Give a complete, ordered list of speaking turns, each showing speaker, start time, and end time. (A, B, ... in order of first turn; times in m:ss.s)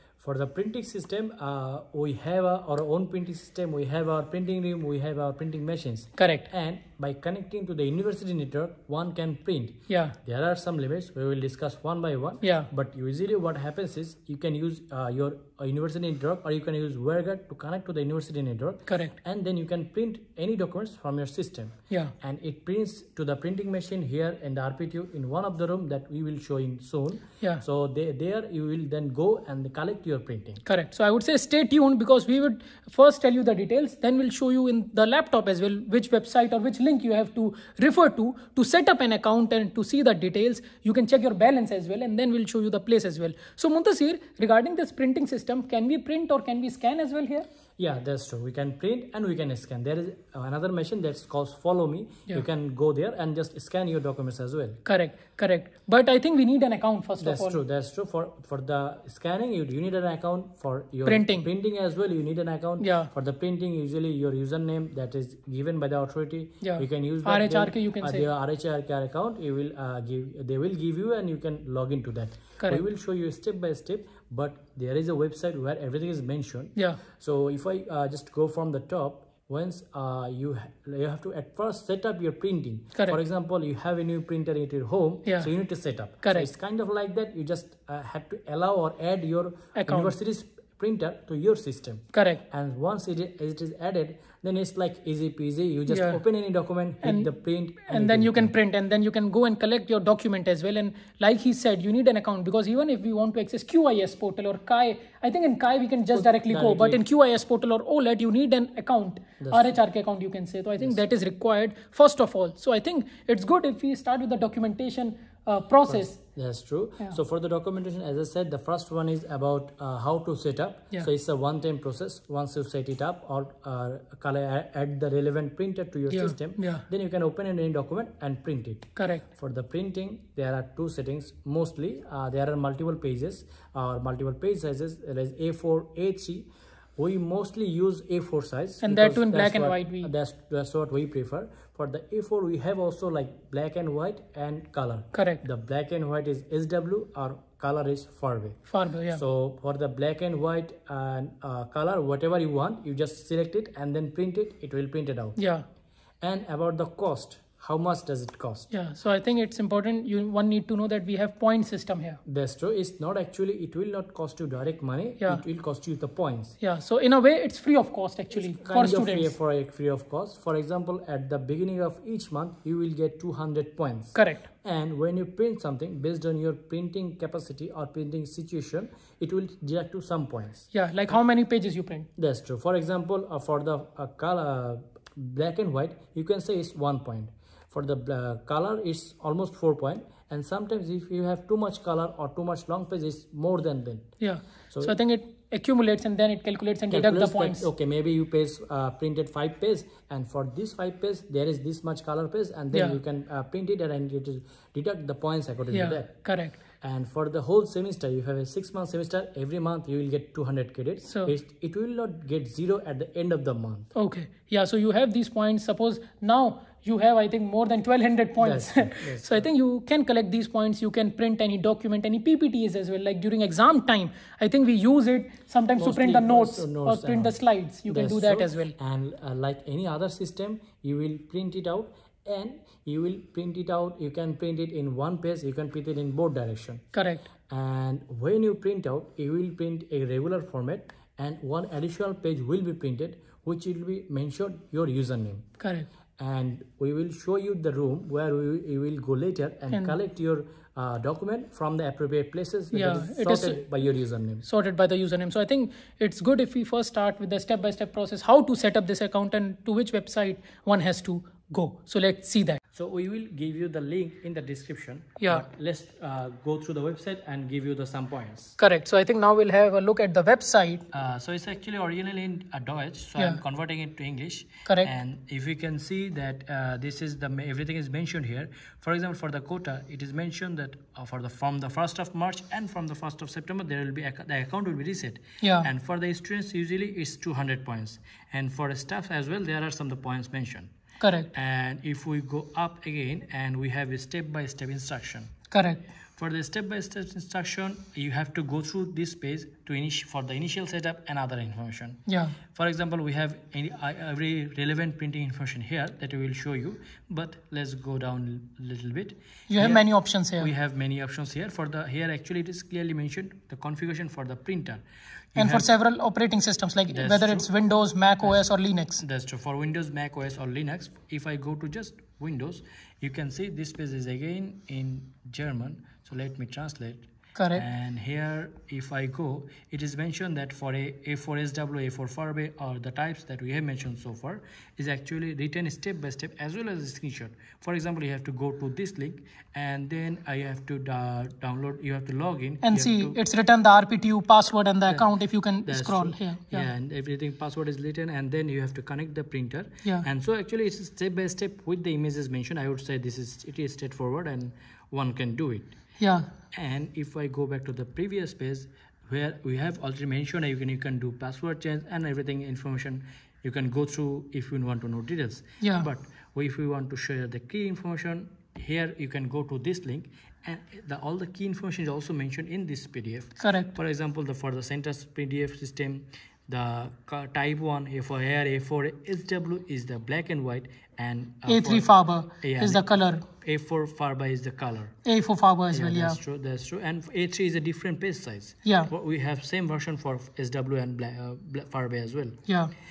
0:00.2-0:30.6 A
0:06.2-0:06.5 B
0:09.9-0:10.2 B
0:12.4-0:12.7 B
0:18.9-0:19.1 B
0:30.6-0:47.5 B
0:47.8-0:54.8 A
0:54.8-0:57.6 B
0:57.2-1:38.5 A
1:01.0-1:01.5 B
1:02.8-1:03.1 B
1:06.6-1:08.2 B
1:26.1-1:26.5 B
1:29.8-1:30.1 B
1:32.1-1:32.4 B
1:35.9-1:36.2 B
1:37.0-1:37.3 B
1:37.8-1:56.2 B
1:46.1-1:47.0 A
1:49.4-1:49.8 A
1:55.9-2:35.4 A
2:06.1-2:06.8 B
2:09.0-2:09.2 B
2:18.8-2:20.1 B
2:25.1-2:25.4 B
2:28.7-2:29.2 B
2:35.4-2:35.6 B
2:36.2-2:38.7 A
2:38.7-2:42.2 B
2:42.2-2:46.6 A
2:46.6-2:49.3 B
2:48.3-3:00.7 A
2:54.1-2:54.4 B
3:00.7-3:02.1 B
3:02.2-3:14.1 A
3:14.2-3:17.6 B
3:14.7-3:15.0 A
3:16.9-3:33.9 A
3:22.7-3:23.0 B
3:25.7-3:26.6 B
3:33.9-3:48.7 B
3:38.4-3:39.5 A
3:45.8-3:56.8 A
3:56.9-3:57.2 B
3:57.5-4:05.6 A
4:05.6-4:05.9 B
4:06.2-4:14.4 A
4:12.7-4:13.6 B
4:14.4-4:22.6 B
4:22.7-4:28.6 A
4:25.2-4:25.4 B
4:28.6-4:30.8 B
4:30.9-4:50.7 A
4:34.6-4:34.9 B
4:45.4-4:45.7 B
4:51.0-4:51.3 B
4:51.3-4:55.3 A
4:55.5-4:55.8 B
4:56.2-5:15.7 A
5:02.1-5:02.4 B
5:09.5-5:10.5 B
5:15.4-5:19.0 B
5:16.9-5:17.5 A
5:19.0-5:43.2 A
5:27.4-5:27.6 B
5:42.6-5:46.6 B
5:45.6-5:55.8 A
5:56.0-5:56.3 B
5:56.5-6:22.8 A
6:05.6-6:05.9 B
6:13.4-6:13.7 B
6:21.4-6:23.2 B
6:23.4-6:25.0 A
6:25.0-6:26.2 B
6:25.7-6:32.4 A
6:28.6-6:28.9 B
6:32.5-6:32.7 B